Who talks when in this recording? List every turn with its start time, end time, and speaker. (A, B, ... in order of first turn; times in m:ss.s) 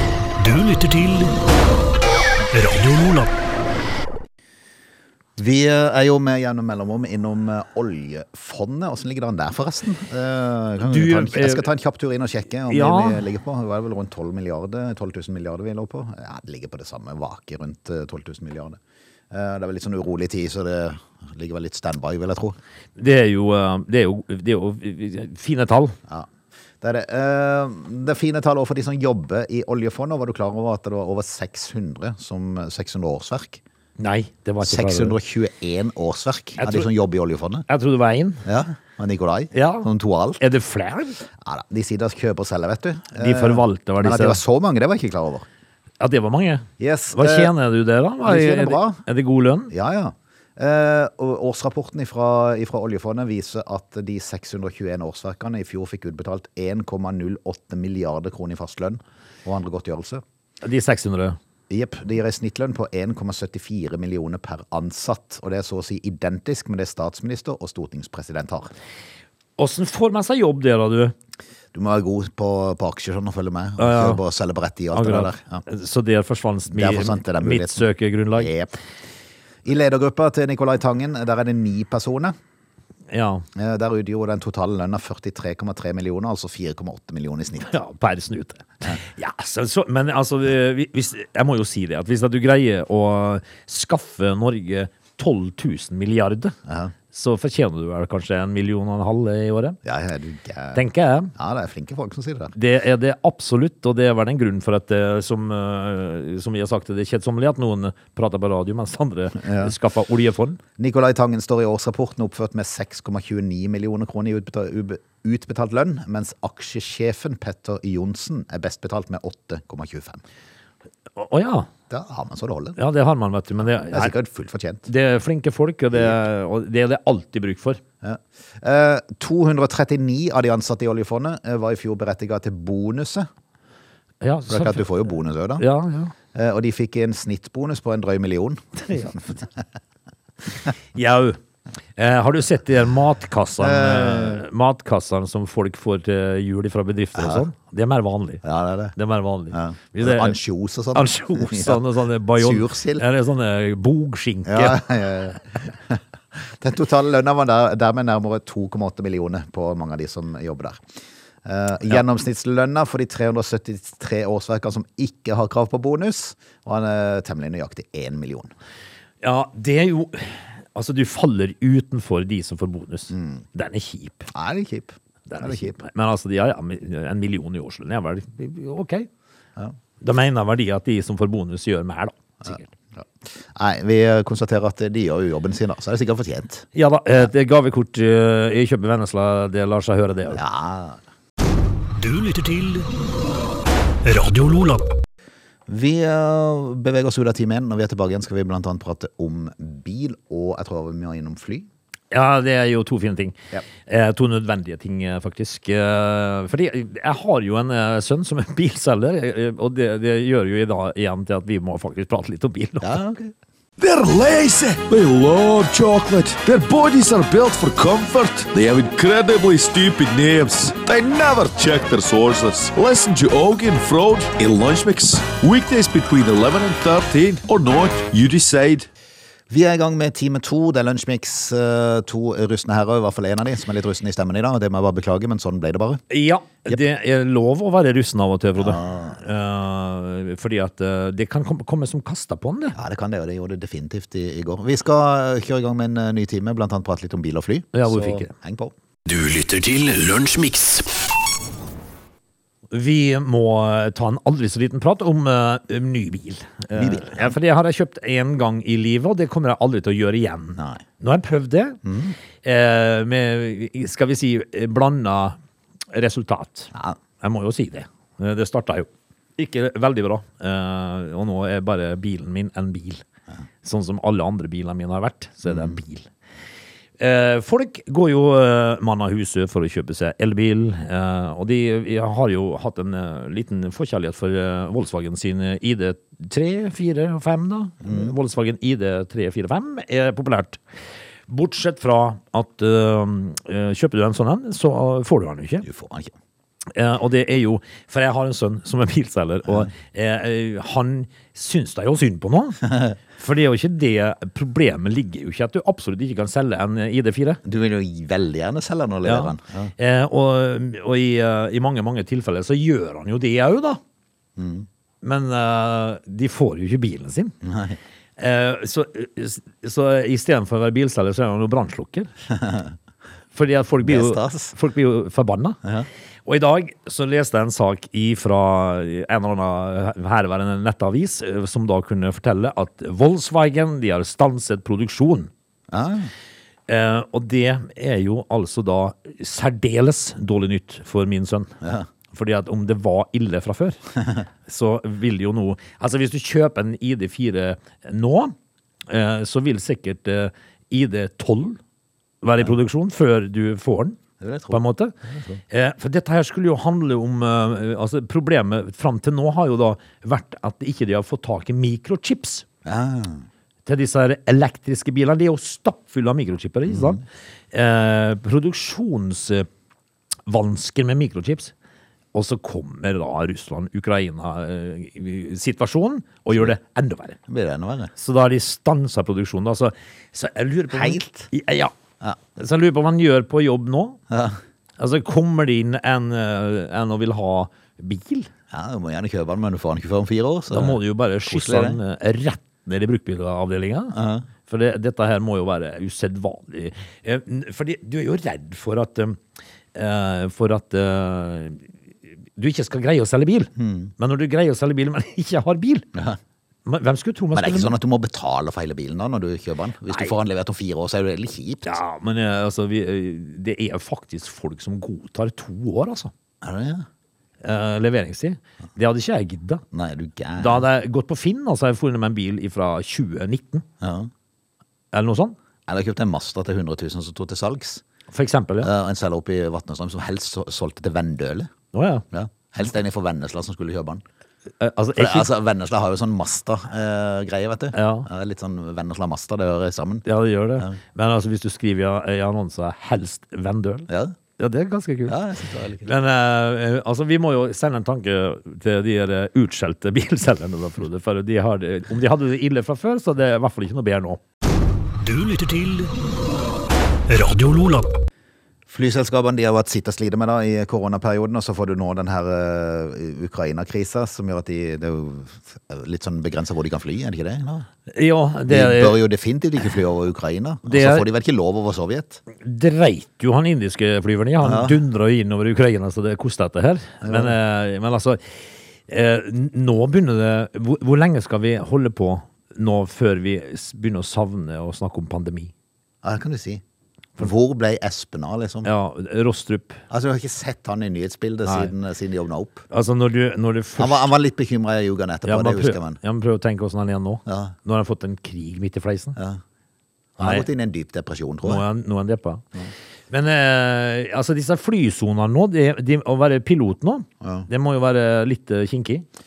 0:00.4-0:01.4 A
0:02.5-0:03.3 A
0:05.4-0:18.8 B
0:10.8-0:11.7 C
0:12.7-0:13.2 C
0:19.3-0:22.6 B
0:23.0-0:26.0 C
0:26.8-0:33.6 B
0:34.0-0:35.2 C
0:34.6-0:37.7 B
0:36.6-0:36.9 C
0:37.7-0:38.4 C
0:38.4-0:40.4 B
0:39.5-0:39.9 C
0:40.4-0:41.2 C
0:41.4-0:45.4 B
0:43.1-0:44.4 C
0:46.0-0:49.7 C
0:46.8-0:47.5 B
0:48.2-0:49.0 B
0:49.7-1:00.2 B
1:00.6-1:01.4 C
1:01.7-1:08.7 B
1:09.6-1:11.1 C
1:11.7-1:15.6 B
1:13.8-1:14.2 C
1:14.9-1:18.5 C
1:16.7-1:17.8 B
1:18.4-1:18.7 B
1:19.6-1:22.3 B
1:23.1-1:23.4 C
1:23.5-1:27.7 B
1:27.6-1:36.5 C
1:36.7-1:36.9 B
1:37.1-1:39.8 C
1:39.8-1:40.8 B
1:40.7-1:41.3 C
1:41.3-1:42.5 B
1:42.5-1:50.6 C
1:49.4-1:49.7 B
1:50.8-2:00.2 B
2:01.1-2:01.7 C
2:01.9-2:02.8 B
2:02.8-2:04.1 C
2:03.9-2:04.9 B
2:04.9-2:07.8 C
2:08.0-2:13.3 B
2:14.2-2:14.8 C
2:14.5-2:15.6 B
2:15.6-2:16.1 C
2:16.3-2:19.4 B
2:20.9-2:21.4 C
2:22.0-2:28.4 C
2:23.6-2:24.4 B
2:27.2-2:27.4 B
2:28.4-2:28.9 B
2:28.9-2:30.4 C
2:29.5-2:31.8 B
2:30.9-2:34.8 C
2:32.4-2:33.0 B
2:34.5-2:40.8 B
2:41.4-2:48.5 B
2:49.2-2:54.3 C
2:53.1-2:53.4 B
2:54.3-2:55.7 B
2:55.3-2:59.1 C
3:00.0-3:02.7 C
3:02.4-3:06.7 B
3:06.7-3:10.4 C
3:10.3-3:11.0 B
3:12.0-3:12.9 A
3:14.0-3:14.9 A
3:15.7-3:21.7 B
3:22.1-3:33.0 C
3:32.8-3:33.3 B
3:33.8-3:48.9 D
3:49.5-3:56.0 B
3:56.1-4:02.8 C
3:58.6-3:59.2 B
4:02.7-4:08.7 B
4:07.7-4:08.3 C
4:09.0-4:10.9 A
4:12.7-4:21.8 C
4:16.7-4:17.3 B
4:20.6-4:20.8 B
4:21.8-4:22.2 B
4:22.4-4:25.4 C
4:25.9-4:33.0 C
4:33.6-4:36.1 C
4:35.4-4:35.8 B
4:37.0-4:50.6 C
4:47.8-4:48.1 B
4:51.3-4:55.6 C
4:55.6-4:56.1 B
4:56.7-5:07.4 C
5:07.4-5:09.7 B
5:09.0-5:13.8 C
5:14.4-5:14.6 B
5:15.0-5:17.3 C
5:17.4-5:17.8 B
5:18.2-5:22.1 C
5:22.3-5:22.7 B
5:23.3-5:25.6 C
5:23.8-5:24.5 B
5:26.2-5:35.3 C
5:35.7-5:36.1 B
5:36.7-5:41.6 C
5:42.1-5:43.8 C
5:44.4-5:48.3 C
5:48.9-5:51.6 C
5:52.2-5:54.0 C
5:54.2-5:55.4 B
5:54.5-5:54.9 C
5:55.5-6:02.4 C
6:02.6-6:03.2 B
6:03.6-6:09.5 C
6:06.7-6:07.0 B
6:10.3-6:11.5 C
6:12.1-6:17.2 C
6:17.3-6:17.9 B
6:18.0-6:21.7 C
6:20.7-6:21.3 B
6:22.4-6:24.0 C
6:24.1-6:24.4 B
6:24.8-6:28.3 C
6:28.5-6:31.8 B
6:30.5-6:33.9 C
6:33.9-6:34.3 B
6:34.4-6:39.2 C
6:39.7-6:41.7 C
6:42.4-6:45.9 C
6:43.6-6:43.9 B
6:46.6-6:47.8 C
6:47.3-6:51.8 B
6:49.9-6:50.1 C
6:51.6-6:56.1 C
6:56.4-6:56.8 B
6:57.4-6:59.6 C
6:59.7-7:00.6 B
7:00.4-7:03.6 C
7:03.8-7:04.1 B
7:04.9-7:05.4 C
7:05.7-7:07.8 B
7:08.1-7:08.7 C
7:08.6-7:11.5 B
7:11.7-7:12.0 C
7:12.1-7:14.0 B
7:14.6-7:15.3 C
7:15.0-7:20.0 B
7:17.7-7:18.1 C
7:20.0-7:25.2 C
7:23.9-7:24.1 B
7:25.1-7:25.9 B
7:25.8-7:34.2 C
7:35.0-7:35.9 A
7:37.1-7:37.9 A
7:38.7-7:47.7 B
7:47.9-7:49.0 C
7:48.5-7:52.2 B
7:50.6-7:51.0 C
7:52.4-8:05.5 C
7:54.4-7:54.8 B
7:57.0-7:57.3 B
8:06.0-8:06.6 B
8:07.2-8:08.7 B
8:08.6-8:09.8 C
8:09.9-8:12.6 B
8:11.4-8:11.7 C
8:12.7-8:14.1 C
8:13.8-8:16.0 B
8:15.2-8:19.2 C
8:17.2-8:17.5 B
8:20.2-8:21.6 B
8:20.2-8:20.4 C
8:21.4-8:22.5 C
8:23.1-8:29.0 C
8:27.2-8:27.5 B